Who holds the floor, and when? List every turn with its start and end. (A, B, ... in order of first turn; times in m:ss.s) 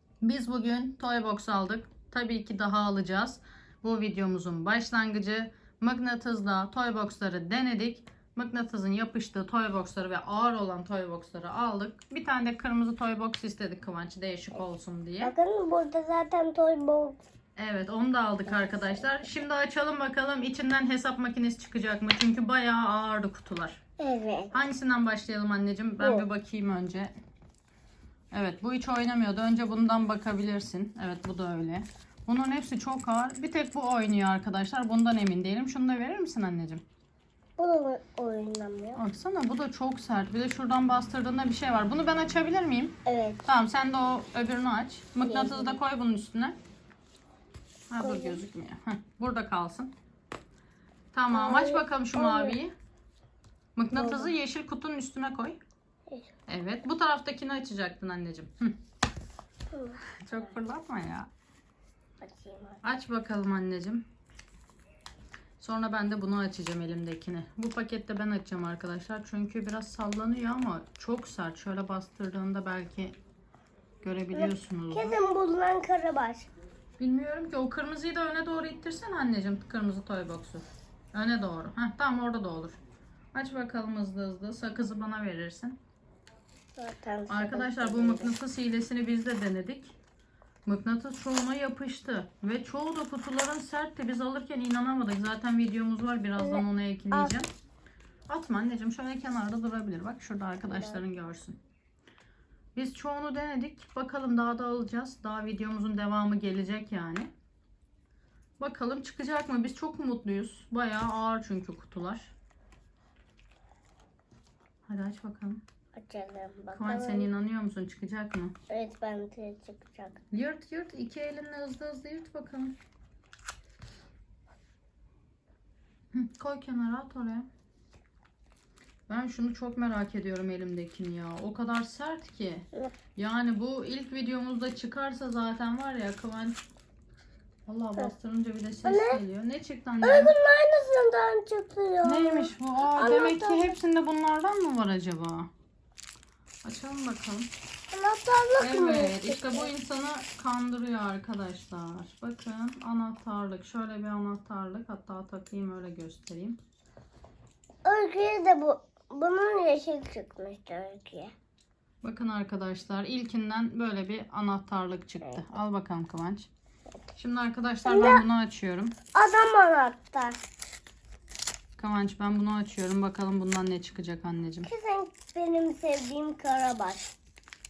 0:00.2-0:15.3 A
0:15.2-0:17.2 B
0:17.6-0:23.8 A
0:18.5-0:19.2 B
0:24.0-0:24.6 B
0:24.5-0:27.1 A
0:26.0-0:26.2 B
0:28.3-0:36.8 A
0:37.6-0:39.0 B
0:39.0-0:46.6 A
0:43.0-0:43.4 B
0:45.2-0:45.8 B
0:47.9-0:49.9 A
0:48.0-0:48.4 B
0:51.1-0:52.7 A
0:51.3-0:52.6 B
0:53.8-0:55.6 A
0:53.9-0:54.3 B
0:56.5-0:58.7 A
0:59.7-1:00.0 B
1:00.2-1:01.3 A
1:02.2-1:02.8 B
1:02.8-1:04.0 A
1:05.6-1:13.2 A
1:14.0-1:15.2 A
1:14.3-1:16.5 B
1:17.0-1:22.8 A
1:23.3-1:25.8 A
1:26.8-1:28.3 B
1:27.3-1:30.0 A
1:30.6-1:37.5 A
1:36.4-1:37.4 B
1:38.3-1:41.6 A
1:40.7-1:41.0 B
1:42.8-1:47.3 A
1:48.6-1:52.3 A
1:54.9-1:55.6 A
1:56.0-1:57.3 B
1:56.7-1:58.5 A
1:58.7-2:00.2 B
2:00.3-2:02.8 A
2:06.1-2:07.5 A
2:09.1-2:16.6 A
2:17.7-2:20.3 A
2:18.8-2:19.2 B
2:20.0-2:23.8 B
2:22.0-2:25.5 A
2:26.6-2:27.5 A
2:27.9-2:29.7 B
2:28.6-2:36.6 A
2:37.8-2:41.3 B
2:42.0-2:46.5 A
2:47.2-2:49.0 A
2:47.8-2:48.2 B
2:49.1-2:50.4 B
2:51.8-2:54.7 A
2:54.6-2:57.1 B